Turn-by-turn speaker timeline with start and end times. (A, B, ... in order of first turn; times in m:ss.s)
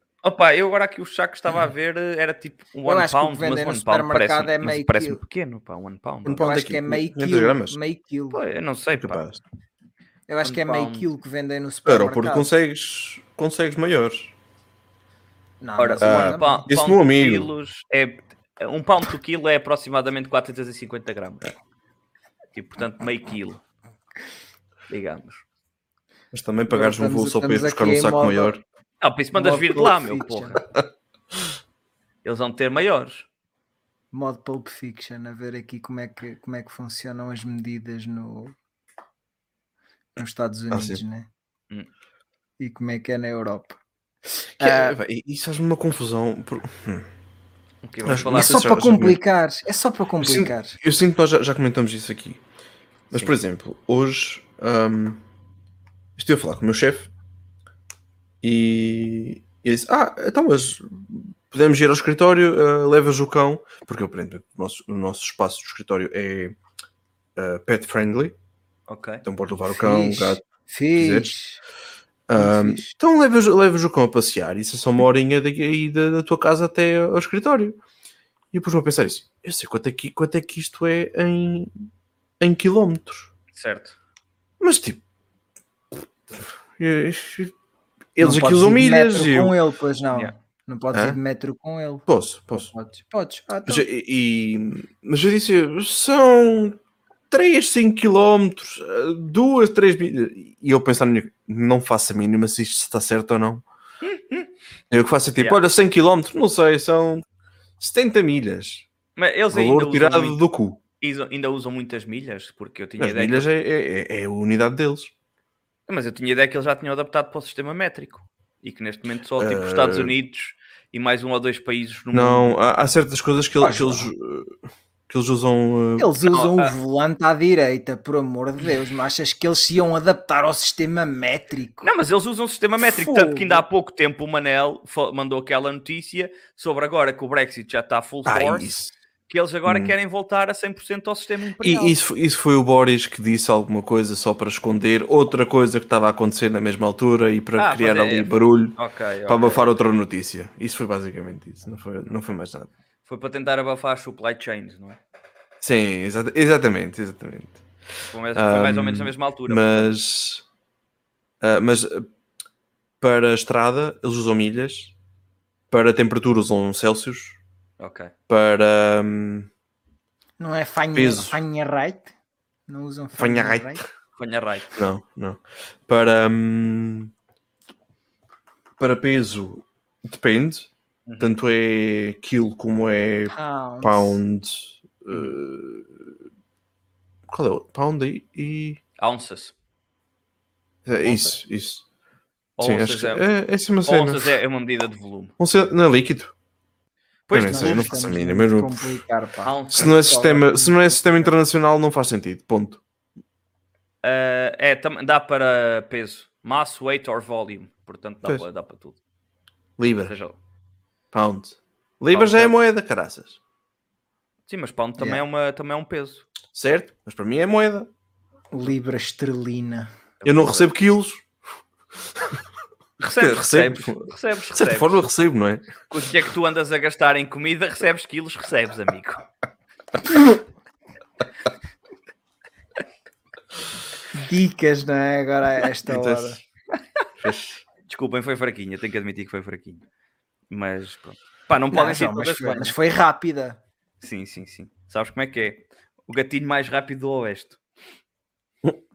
0:00.2-0:06.5 A
0:02.8-0:05.2 B
0:06.2-0:07.8 C
0:06.4-0:08.4 B
0:08.3-0:09.2 A
0:09.0-0:09.4 C
0:10.3-0:12.5 B
0:10.4-0:11.1 A
0:11.8-0:14.4 C
0:15.6-0:16.6 B
0:15.8-0:21.5 A
0:16.0-0:17.5 C
0:22.5-0:23.6 A
0:24.9-0:25.4 A
0:26.3-0:28.6 C
0:26.7-0:28.6 B
0:29.0-0:30.6 A
0:29.3-0:30.6 B
0:32.2-0:33.3 A
0:34.1-0:38.6 B
0:40.2-0:41.3 B
0:40.7-0:41.0 C
0:42.6-0:43.8 B
0:44.6-0:45.0 B
0:44.6-0:47.1 C
0:47.8-0:48.7 A
0:48.0-0:49.2 C
0:48.2-0:50.8 B
0:50.2-0:52.4 C
0:53.1-0:55.2 C
0:56.2-0:57.1 C
0:58.4-1:06.6 C
1:07.4-1:08.4 C
1:08.9-1:09.2 A
1:09.2-1:10.4 C
1:09.7-1:11.6 B
1:11.0-1:11.3 C
1:12.3-1:17.8 C
1:12.4-1:12.9 B
1:18.5-1:21.9 C
1:22.4-1:23.3 C
1:23.5-1:24.0 A
1:24.6-1:25.0 C
1:26.4-1:27.5 C
1:28.2-1:29.6 C
1:28.2-1:32.1 B
1:30.9-1:31.2 C
1:32.1-1:32.7 C
1:32.6-1:33.9 B
1:33.7-1:43.6 C
1:44.0-1:44.5 A
1:44.9-1:47.2 C
1:47.8-1:48.9 C
1:49.2-1:50.4 A
1:49.5-1:50.8 C
1:51.0-1:53.5 A
1:53.0-1:55.1 C
1:55.9-2:02.5 A
1:59.4-2:00.2 C
2:02.1-2:04.5 C
2:03.6-2:04.1 B
2:05.1-2:06.1 C
2:06.0-2:11.9 B
2:06.3-2:06.7 A
2:11.8-2:18.8 A
2:12.8-2:13.6 B
2:18.3-2:19.0 C
2:19.3-2:22.0 A
2:19.7-2:20.0 C
2:21.6-2:32.7 C
2:27.6-2:29.7 A
2:33.1-2:35.0 A
2:35.6-2:37.6 C
2:38.1-2:40.0 A
2:38.4-2:40.4 C
2:41.4-2:42.1 C
2:43.0-2:44.9 C
2:45.7-2:47.4 C
2:47.8-2:48.1 A
2:48.3-2:49.5 C
2:50.4-2:52.1 B
2:50.9-2:51.4 C
2:52.7-2:53.8 B
2:53.2-2:53.8 C
2:54.2-2:54.8 A
2:54.7-2:57.1 C
2:58.8-3:06.1 C
3:01.1-3:01.3 A
3:03.3-3:04.2 B
3:07.3-3:08.8 C
3:09.0-3:09.5 A
3:10.8-3:11.8 C
3:11.0-3:11.4 A
3:12.6-3:13.3 A
3:12.6-3:14.4 C
3:13.9-3:15.3 A
3:15.4-3:16.3 C
3:17.3-3:18.0 A
3:17.3-3:19.0 C
3:17.4-3:21.3 B
3:19.4-3:19.9 A
3:19.7-3:22.8 C
3:24.0-3:29.0 A
3:29.8-3:30.1 C
3:30.1-3:30.4 A
3:31.1-3:33.4 C
3:32.1-3:32.6 A
3:34.5-3:36.3 A
3:35.0-3:35.2 B
3:36.5-3:37.9 C
3:38.5-3:39.9 B
3:40.2-3:40.7 A
3:40.2-3:41.3 C
3:43.0-3:44.9 A
3:43.1-3:45.8 C
3:45.9-3:49.2 A
3:54.2-3:56.4 B
3:55.8-3:56.4 C
3:57.2-3:57.6 C
3:57.9-3:59.8 A
4:00.5-4:02.7 A
4:01.7-4:03.6 B
4:04.0-4:07.6 A